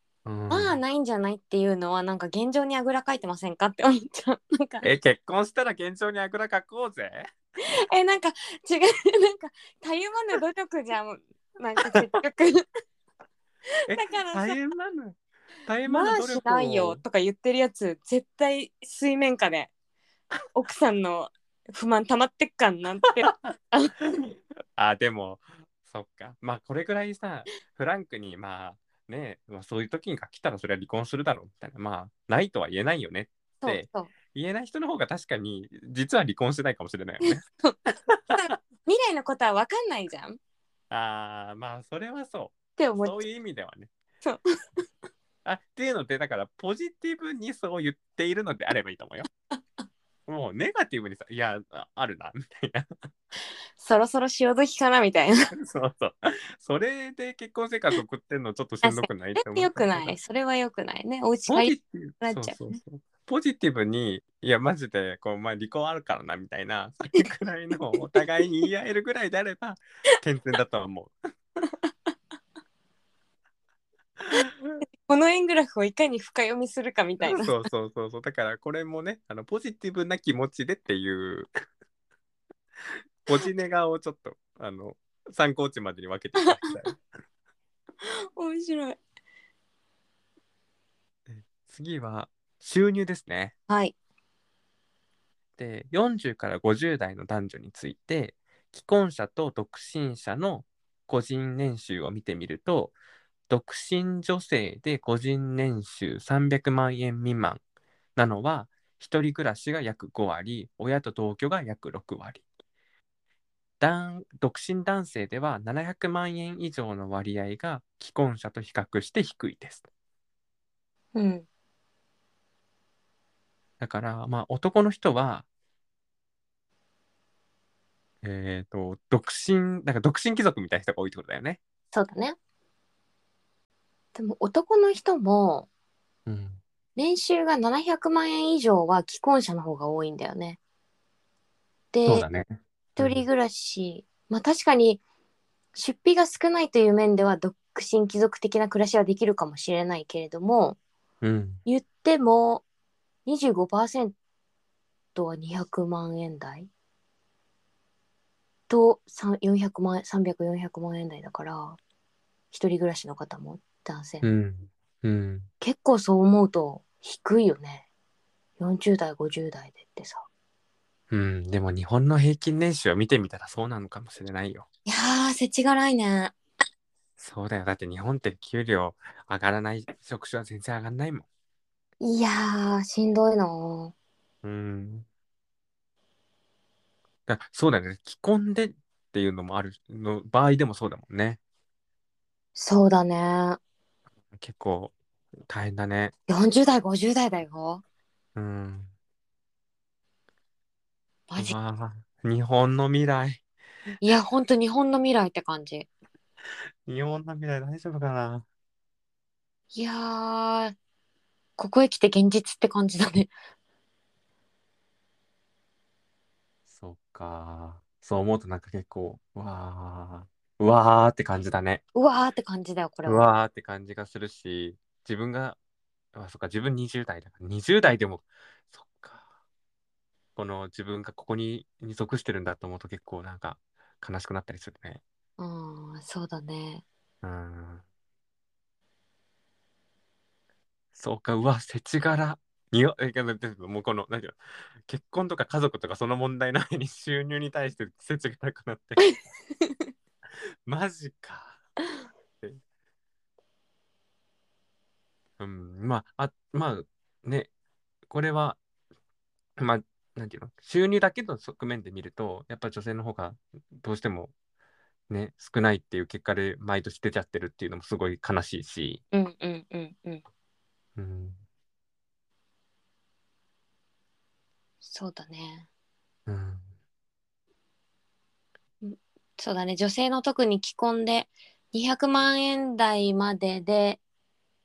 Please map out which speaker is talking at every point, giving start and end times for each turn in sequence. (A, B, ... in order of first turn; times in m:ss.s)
0:00.2-0:00.8 A
0:00.5-0:04.9 B
0:04.8-0:07.3 A
0:07.7-0:12.6 B
0:13.9-0:17.0 A
0:13.9-0:14.6 B
0:15.8-0:19.7 B
0:20.5-0:23.9 B
0:24.1-0:37.4 A
0:33.6-0:34.1 B
0:37.2-0:37.8 B
0:38.1-0:38.5 A
0:38.3-0:40.4 B
0:40.9-0:43.9 A
0:42.8-0:43.2 B
0:45.4-0:49.3 A
0:50.3-0:52.9 A
0:53.8-0:55.5 B
0:55.5-1:00.2 A
0:58.8-1:02.8 B
1:01.5-1:11.1 A
1:11.6-1:11.9 B
1:14.2-1:14.8 A
1:15.0-1:17.6 B
1:17.2-1:21.5 A
1:23.2-1:27.0 A
1:28.0-1:29.0 B
1:31.3-1:33.5 A
1:33.7-1:34.0 B
1:35.6-1:43.0 A
1:43.5-1:47.6 A
1:48.2-1:52.4 A
1:53.8-1:59.9 A
2:01.2-2:01.4 B
2:03.8-2:05.5 A
2:08.2-2:11.6 A
2:11.9-2:12.4 B
2:14.2-2:15.7 B
2:16.3-2:16.6 A
2:17.0-2:20.6 B
2:21.9-2:22.3 B
2:22.0-2:23.2 A
2:23.0-2:25.0 B
2:25.8-2:30.8 B
2:31.2-2:31.6 A
2:31.7-2:32.6 B
2:33.2-2:34.2 B
2:35.2-2:36.7 B
2:38.7-2:41.8 B
2:42.5-2:44.2 B
2:44.2-2:45.5 A
2:45.6-2:47.8 B
2:48.6-2:50.2 B
2:51.1-2:54.7 A
2:54.9-2:56.3 B
2:57.2-3:01.3 A
3:02.0-3:03.9 B
3:04.4-3:05.1 A
3:07.3-3:11.4 A
3:12.6-3:13.6 B
3:14.4-3:14.9 A
3:15.5-3:16.1 A
3:16.3-3:17.8 B
3:18.4-3:18.9 A
3:21.3-3:21.6 B
3:21.4-3:23.4 A
3:24.0-3:25.9 B
3:26.9-3:28.5 A
3:29.7-3:30.8 B
3:31.6-3:33.3 B
3:36.7-3:41.8 A
3:42.0-3:43.2 B
3:43.0-3:45.6 A
3:46.1-3:49.2 A
3:50.4-3:55.0 A
3:55.4-3:56.8 B
3:57.2-3:57.8 A
4:00.9-4:09.0 A
4:09.0-4:09.9 B
4:10.7-4:11.6 A
4:15.4-4:17.5 A
4:18.1-4:18.6 A
4:19.6-4:24.3 A
4:25.1-4:29.0 A
4:29.1-4:30.2 B
4:31.0-4:31.4 A
4:34.8-4:35.7 B
4:36.3-4:36.6 A
4:38.8-4:44.0 B